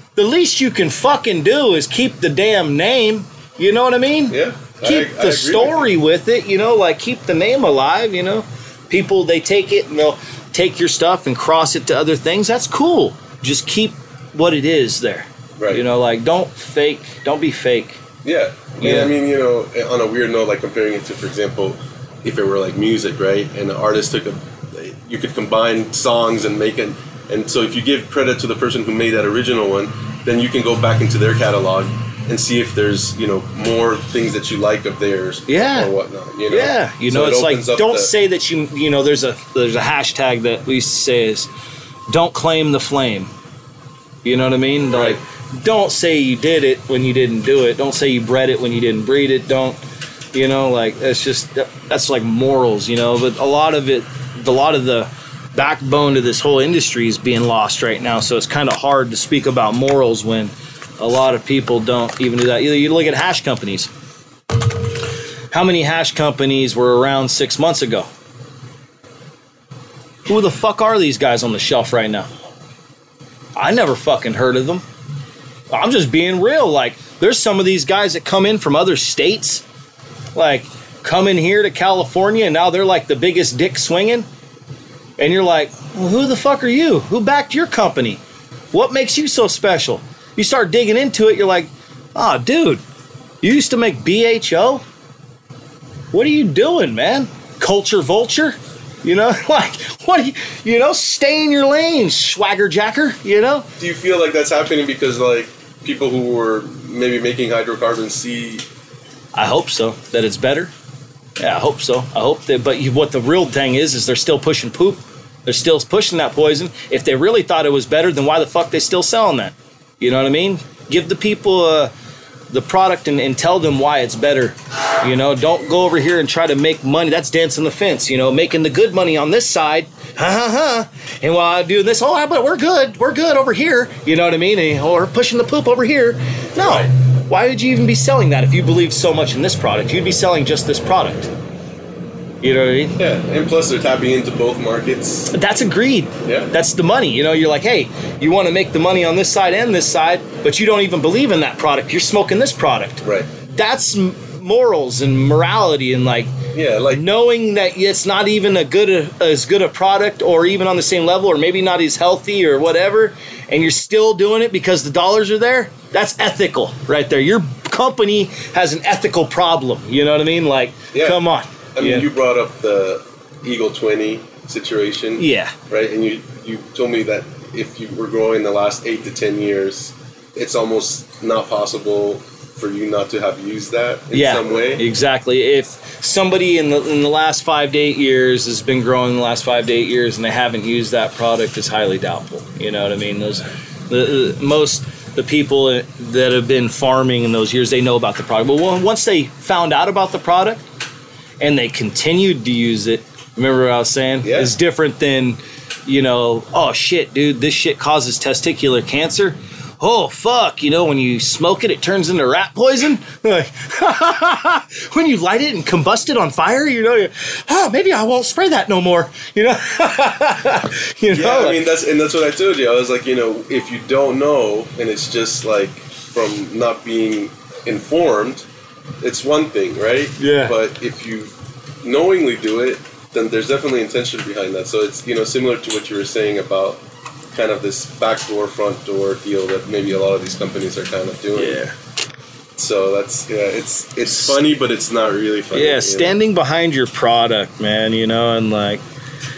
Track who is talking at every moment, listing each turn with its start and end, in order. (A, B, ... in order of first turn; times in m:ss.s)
0:00.2-0:18.0 A
0:04.3-0:05.9 B
0:15.6-0:15.8 B
0:18.2-0:38.1 B
0:18.8-0:19.1 A
0:35.5-0:35.9 A
0:36.5-0:41.5 A
0:42.1-0:43.3 A
0:44.2-0:49.8 A
0:44.9-0:45.2 B
0:50.3-1:03.9 A
1:05.5-1:08.1 A
1:10.2-1:12.3 A
1:13.6-1:14.8 A
1:15.7-1:19.6 A
1:20.3-1:24.2 A
1:25.2-1:28.2 A
1:28.7-1:32.8 A
1:33.4-1:34.8 A
1:36.1-1:43.6 A
1:43.8-1:48.6 B
1:49.3-1:50.7 A
1:51.4-2:01.9 A
2:02.5-2:21.3 A
2:16.6-2:16.9 B
2:22.4-2:23.0 A
2:23.0-2:25.3 B
2:25.3-2:36.3 A
2:26.2-2:26.5 B
2:36.5-2:37.0 B
2:36.9-2:52.1 A
2:50.9-2:51.2 B
2:51.8-3:04.8 B
2:55.2-2:55.5 A
3:04.1-3:20.6 A
3:21.4-3:41.6 A
3:24.2-3:24.5 B
3:41.1-3:48.4 B
3:49.0-3:51.3 B
3:50.2-3:50.6 A
3:51.8-3:56.8 B
3:57.3-4:01.6 B
4:01.4-4:01.7 A
4:02.6-4:06.2 B
4:04.1-4:04.4 A
4:05.5-4:08.8 A